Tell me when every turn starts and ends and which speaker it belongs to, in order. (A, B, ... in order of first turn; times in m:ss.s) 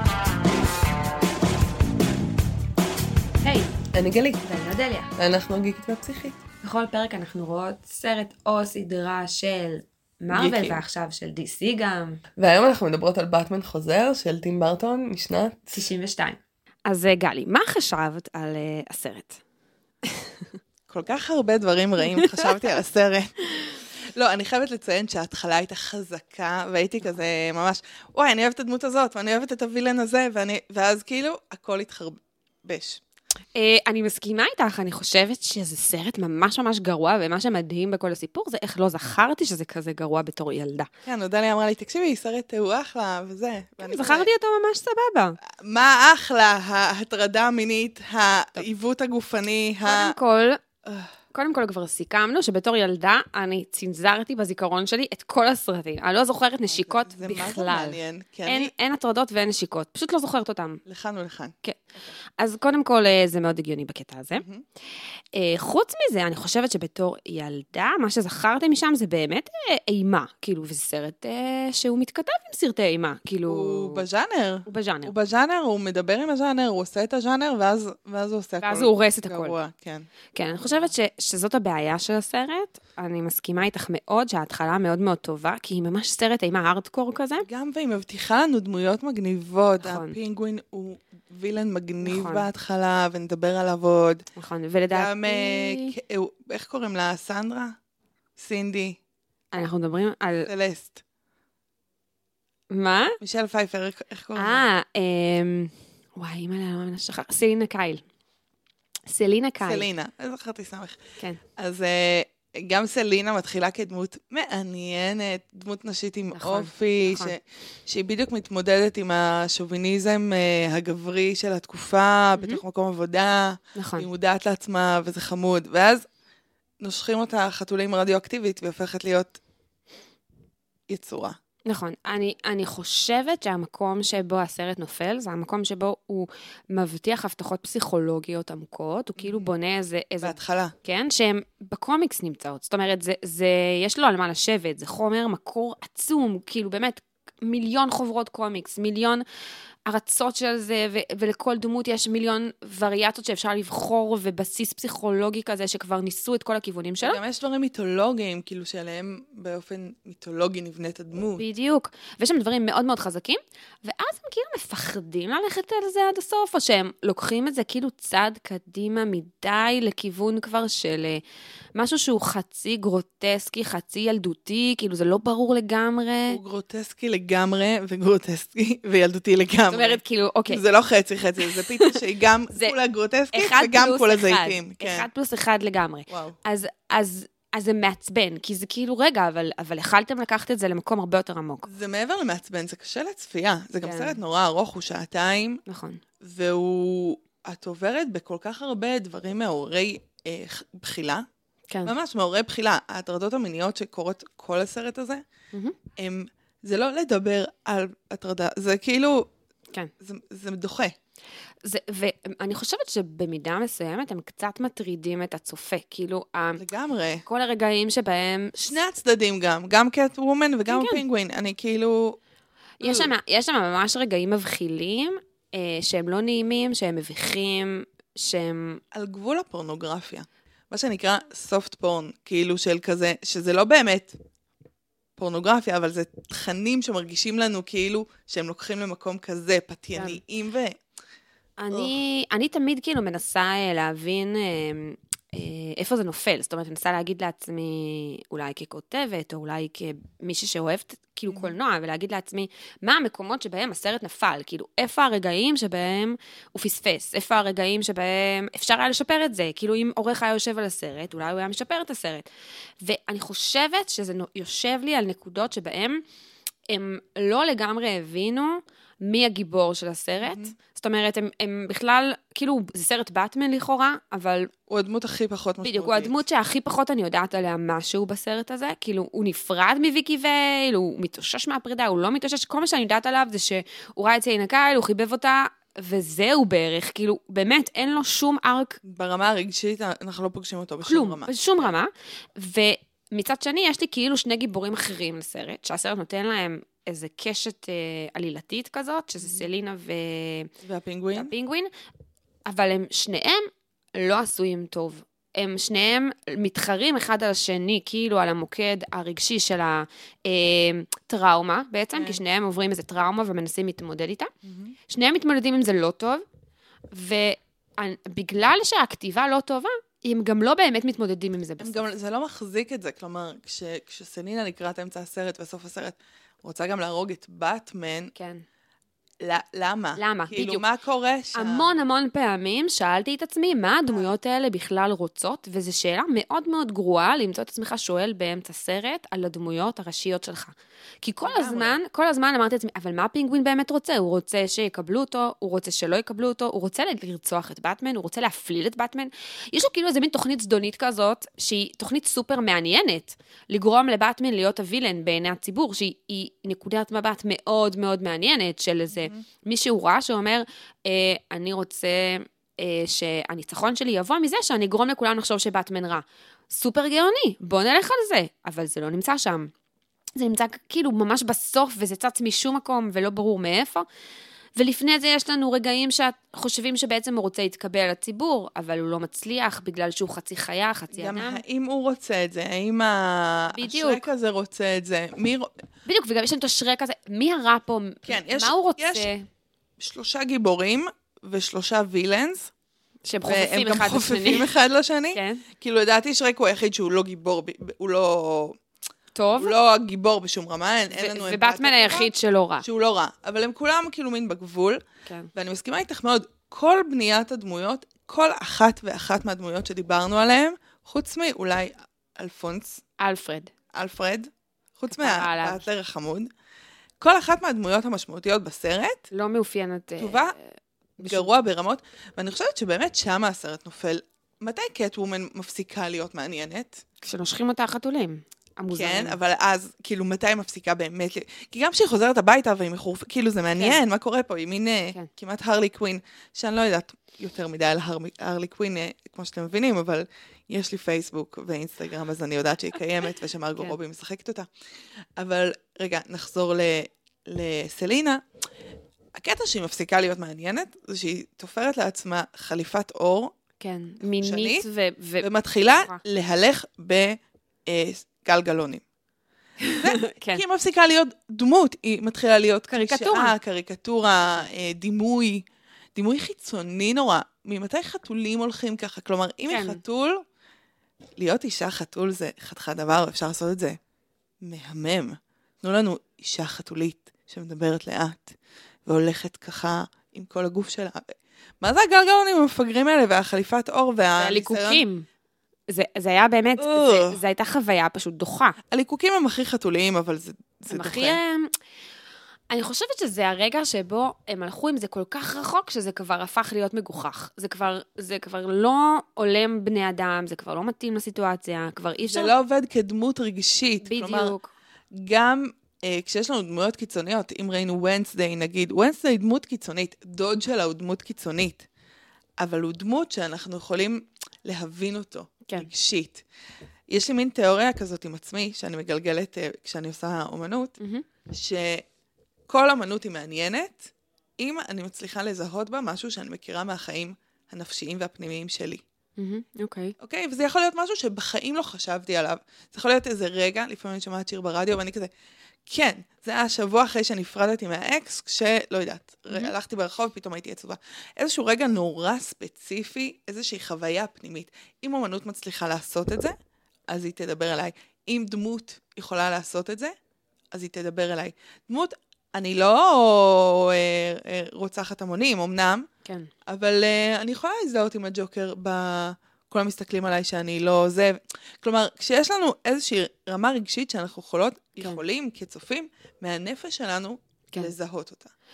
0:03.4-0:03.7 A
0:03.9-0:04.4 B
0:04.4-0:05.1 A
0:05.2-0:06.4 B
0:06.6-0:12.2 A
0:10.3-0:10.8 B
0:12.4-0:15.7 B
0:15.7-0:19.4 A
0:20.0-0:20.4 A
0:20.9-0:33.0 C
0:22.2-0:22.5 A
0:33.6-0:40.9 A
0:41.0-0:44.3 C
0:43.8-0:45.4 A
0:45.4-0:50.1 C
0:49.8-0:50.6 A
0:50.8-0:51.1 C
0:51.3-1:00.8 A
0:56.7-0:58.7 C
1:00.8-1:01.5 C
1:01.6-1:04.4 A
1:04.3-1:04.6 C
1:05.3-1:14.0 A
1:13.5-1:20.1 C
1:14.7-1:15.1 A
1:18.6-1:19.6 A
1:20.3-1:27.5 A
1:20.6-1:20.9 C
1:27.4-1:34.2 C
1:29.8-1:30.2 A
1:32.0-1:32.5 A
1:34.4-1:36.0 A
1:34.9-1:37.8 C
1:38.4-1:39.0 C
1:39.5-1:40.5 A
1:40.5-1:41.0 C
1:42.7-1:43.2 A
1:43.2-1:44.7 C
1:44.4-1:48.0 A
1:49.1-1:49.9 A
1:49.6-1:51.0 C
1:51.6-2:06.1 C
1:56.3-1:57.3 A
2:02.4-2:02.6 A
2:03.8-2:04.1 A
2:06.8-2:09.4 C
2:10.9-2:11.4 C
2:11.7-2:29.2 A
2:19.2-2:19.5 C
2:20.2-2:20.7 C
2:29.9-2:37.2 A
2:37.0-2:41.4 C
2:41.4-2:51.2 A
2:51.8-2:56.4 A
2:56.3-3:05.1 C
2:59.7-3:00.6 A
3:01.4-3:02.0 A
3:03.3-3:11.7 A
3:06.1-3:06.4 C
3:11.7-3:15.6 C
3:13.8-3:14.2 A
3:15.7-3:16.0 A
3:16.2-3:21.2 C
3:21.8-3:25.2 C
3:26.0-3:29.3 C
3:30.0-3:30.9 C
3:31.6-3:36.6 A
3:36.6-3:37.2 C
3:37.2-3:38.6 A
3:38.6-3:42.2 C
3:40.7-3:41.0 A
3:42.8-3:48.8 A
3:42.8-3:43.1 C
3:48.9-3:54.2 C
3:55.2-4:00.8 C
3:59.9-4:00.2 A
4:01.6-4:22.3 A
4:01.7-4:02.0 C
4:11.3-4:11.6 C
4:22.8-4:26.0 A
4:26.7-4:34.5 A
4:30.2-4:30.5 C
4:34.7-4:36.1 C
4:35.6-4:48.8 A
4:48.8-4:51.7 C
4:50.8-5:00.5 A
4:59.2-4:59.5 C
5:00.6-5:01.3 C
5:01.1-5:01.7 A
5:02.4-5:14.3 A
5:14.4-5:14.8 C
5:14.9-5:16.2 A
5:16.9-5:21.8 A
5:21.6-5:28.1 C
5:28.2-5:28.4 A
5:29.2-5:31.8 C
5:30.0-5:30.6 A
5:31.4-6:09.5 A
5:41.2-5:41.8 C
5:58.9-5:59.2 C
6:10.2-6:13.8 A
6:14.6-6:21.4 A
6:20.9-6:25.5 C
6:23.5-6:24.0 A
6:25.8-6:29.2 A
6:28.0-6:29.1 C
6:29.8-6:32.5 C
6:33.0-6:34.5 A
6:33.2-6:38.6 C
6:35.1-6:35.4 A
6:39.1-6:39.5 A
6:39.4-6:44.8 C
6:40.9-6:42.6 A
6:45.0-6:45.3 A
6:45.3-6:52.8 C
6:53.0-6:53.5 A
6:53.7-6:56.3 C
6:54.9-6:55.6 A
6:57.0-6:59.1 C
6:59.1-7:01.3 A
7:00.0-7:00.3 C
7:01.0-7:06.8 C
7:07.0-7:09.2 A
7:08.7-7:24.5 C
7:25.2-7:28.2 C
7:29.2-7:33.4 C
7:33.6-7:36.0 A
7:34.0-7:34.7 C
7:35.2-7:38.8 C
7:39.6-7:40.4 A
7:39.7-7:50.2 C
7:42.7-7:43.3 A
7:49.5-7:49.8 A
7:51.2-7:53.8 C
7:54.4-8:04.8 C
8:04.2-8:05.0 A
8:05.7-8:08.6 A
8:06.6-8:07.2 C
8:08.7-8:11.2 C
8:10.7-8:11.5 A
8:12.5-8:22.3 A
8:22.0-8:24.3 C
8:23.8-8:24.5 A
8:24.9-8:31.7 C
8:32.4-8:36.2 C
8:36.9-8:40.8 C
8:41.3-8:41.9 C
8:42.5-8:48.8 C
8:49.2-8:49.9 A
8:50.0-8:55.1 C
8:55.7-9:06.3 C
9:06.9-9:09.9 C
9:10.5-9:15.9 C
9:16.4-9:28.3 C